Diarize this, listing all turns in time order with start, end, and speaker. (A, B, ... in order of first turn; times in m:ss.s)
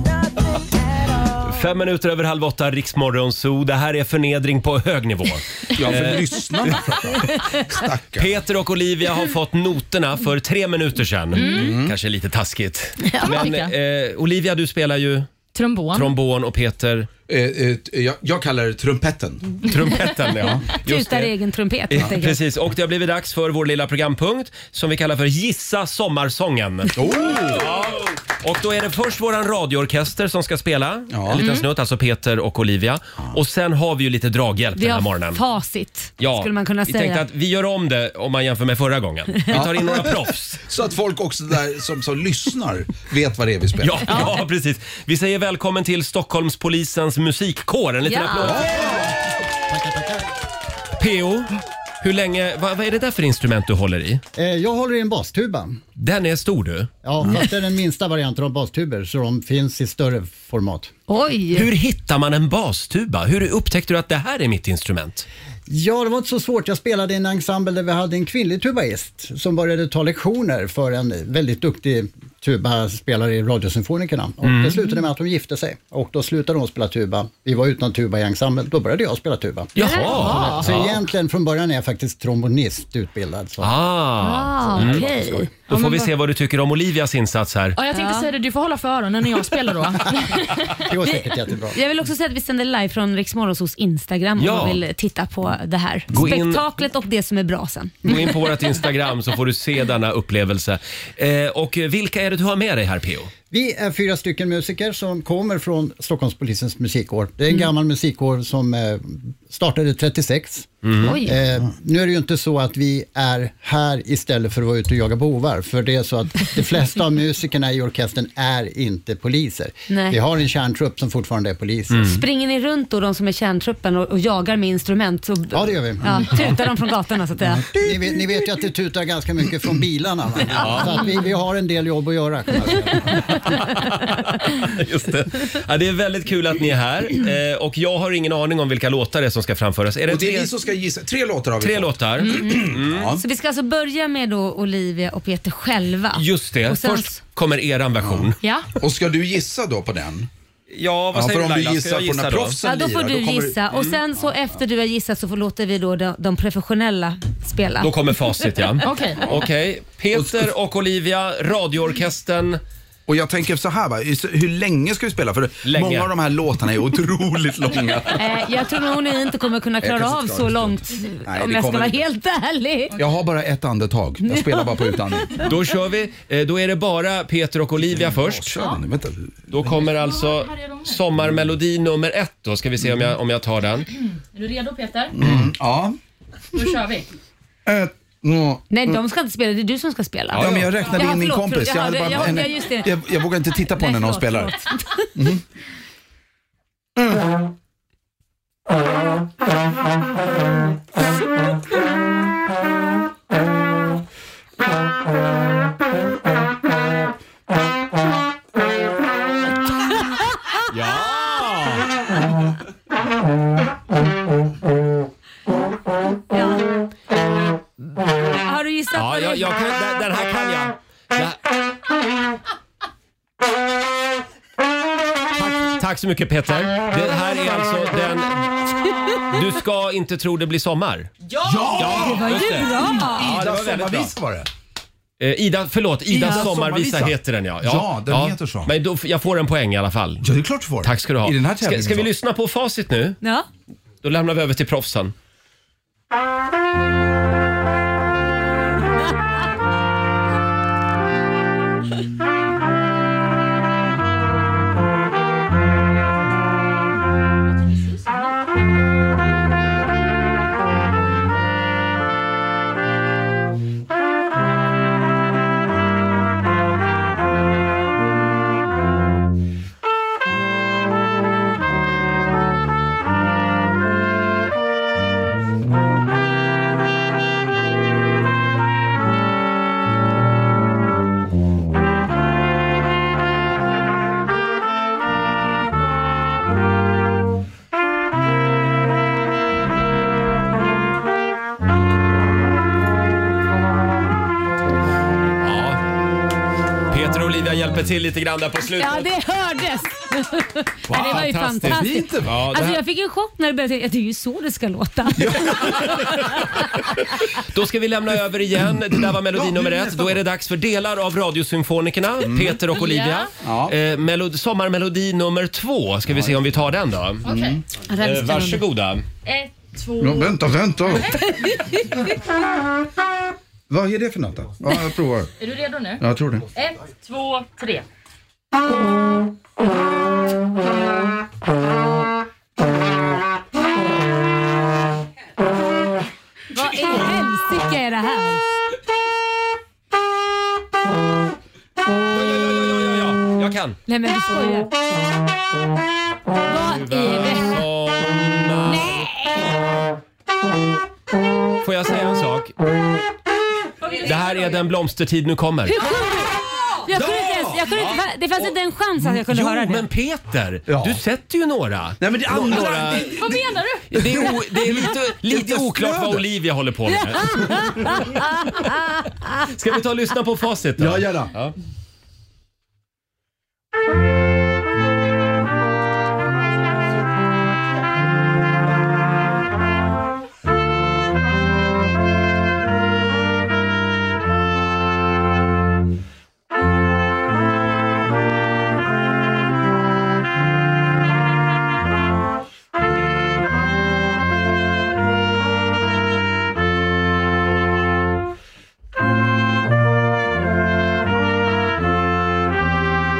0:01.4-0:07.4 A
0:05.7-0:08.4 B
0:08.2-0:15.3 A
0:11.3-0:11.7 C
0:11.5-0:12.0 B
0:13.0-0:13.5 D
0:13.2-0:13.7 C
0:15.5-0:16.1 C
0:15.9-0:17.1 A
0:17.3-0:19.7 B
0:19.6-0:21.3 A
0:20.7-0:22.4 D
0:21.9-0:35.4 A
0:27.0-0:27.7 B
0:27.0-0:27.3 D
0:31.1-0:31.4 B
0:34.8-0:37.3 D
0:36.2-0:40.6 A
0:39.5-0:44.4 B
0:43.8-0:48.9 A
0:48.0-0:48.7 D
0:48.4-0:49.1 B
0:49.7-0:50.4 E
0:51.0-0:54.2 A
0:54.4-0:55.8 E
0:56.0-0:56.9 A
0:57.0-1:00.9 E
1:01.1-1:01.7 D
1:01.5-1:05.3 A
1:05.7-1:23.8 E
1:14.4-1:14.8 A
1:19.8-1:21.0 A
1:19.8-1:20.4 D
1:20.0-1:20.7 C
1:23.6-1:27.8 A
1:24.2-1:25.5 D
1:25.7-1:26.1 C
1:27.8-1:30.7 C
1:27.9-1:28.3 D
1:30.7-1:31.8 E
1:31.0-1:38.4 D
1:34.4-1:34.8 A
1:36.1-1:36.6 A
1:38.0-1:43.3 A
1:43.5-1:50.7 E
1:50.8-1:51.2 A
1:51.0-1:51.4 D
1:51.2-2:02.2 E
1:59.9-2:00.2 D
2:01.9-2:02.2 A
2:02.0-2:07.7 D
2:05.5-2:06.4 E
2:07.5-2:13.6 E
2:07.7-2:08.5 B
2:10.5-2:11.1 A
2:13.5-2:20.5 A
2:20.1-2:23.2 B
2:21.6-2:23.2 A
2:22.3-2:27.2 D
2:26.1-2:28.4 A
2:28.0-2:30.3 B
2:30.7-2:32.6 A
2:31.1-2:33.6 B
2:32.6-2:38.9 D
2:33.7-2:34.0 A
2:37.8-2:42.6 A
2:38.8-2:39.2 C
2:40.1-2:40.5 B
2:43.1-2:48.4 B
2:45.6-2:46.1 A
2:48.2-2:53.0 D
2:49.8-2:52.0 B
2:53.0-2:55.5 B
2:54.2-2:55.5 D
2:55.4-2:58.6 A
2:57.8-2:59.8 B
2:59.5-3:03.9 A
2:59.8-3:01.0 C
3:02.8-3:03.1 B
3:04.0-3:05.2 C
3:05.2-3:06.0 B
3:05.2-3:05.5 A
3:06.6-3:07.1 C
3:07.7-3:09.0 B
3:08.7-3:15.1 D
3:10.3-3:10.7 A
3:10.3-3:14.5 B
3:15.1-3:15.4 B
3:17.0-3:17.3 B
3:30.1-3:30.6 D
3:30.7-3:31.9 A
3:36.3-3:36.7 D
3:37.9-3:39.7 D
3:38.9-3:41.4 A
3:45.4-3:51.1 A
3:51.4-3:54.5 B
3:51.8-3:54.2 A
3:51.8-3:53.4 D
3:55.2-4:00.3 A
3:56.1-3:56.5 D
3:56.1-3:58.7 B
4:00.2-4:02.1 B
4:00.8-4:03.2 A
4:03.2-4:03.5 D
4:04.0-4:05.1 A
4:17.8-4:18.0 C
4:55.4-4:55.8 A
4:56.9-4:59.1 A
4:58.6-5:06.4 D
5:00.9-5:02.7 B
5:01.0-5:02.8 A
5:05.2-5:06.2 B
5:05.5-5:17.2 A
5:08.7-5:10.2 B
5:12.2-5:12.6 B
5:12.8-5:13.3 C
5:13.4-5:13.8 B
5:16.1-5:16.7 B
5:17.2-5:17.6 B
5:17.2-5:17.6 C
5:17.9-5:18.6 D
5:18.0-5:19.0 A
5:19.2-5:20.4 C
5:20.0-5:21.2 B
5:23.7-5:25.3 B
5:25.4-5:26.0 C
5:26.0-5:26.5 B
5:26.5-5:27.8 C
5:36.5-5:38.4 D
5:42.1-5:43.8 A
5:43.9-5:44.7 D
5:46.5-5:47.6 D
5:46.7-5:49.1 A
5:48.7-5:49.6 D
5:51.6-5:52.5 A
5:53.8-5:54.6 C
5:54.0-5:55.8 A
5:55.7-5:59.9 D
5:56.9-5:57.6 B
5:57.5-6:03.2 A
6:00.7-6:01.0 B
6:02.0-6:06.3 B
6:03.2-6:03.9 C
6:03.9-6:08.2 A
6:06.9-6:09.0 D
6:09.4-6:11.5 A
6:10.8-6:11.3 B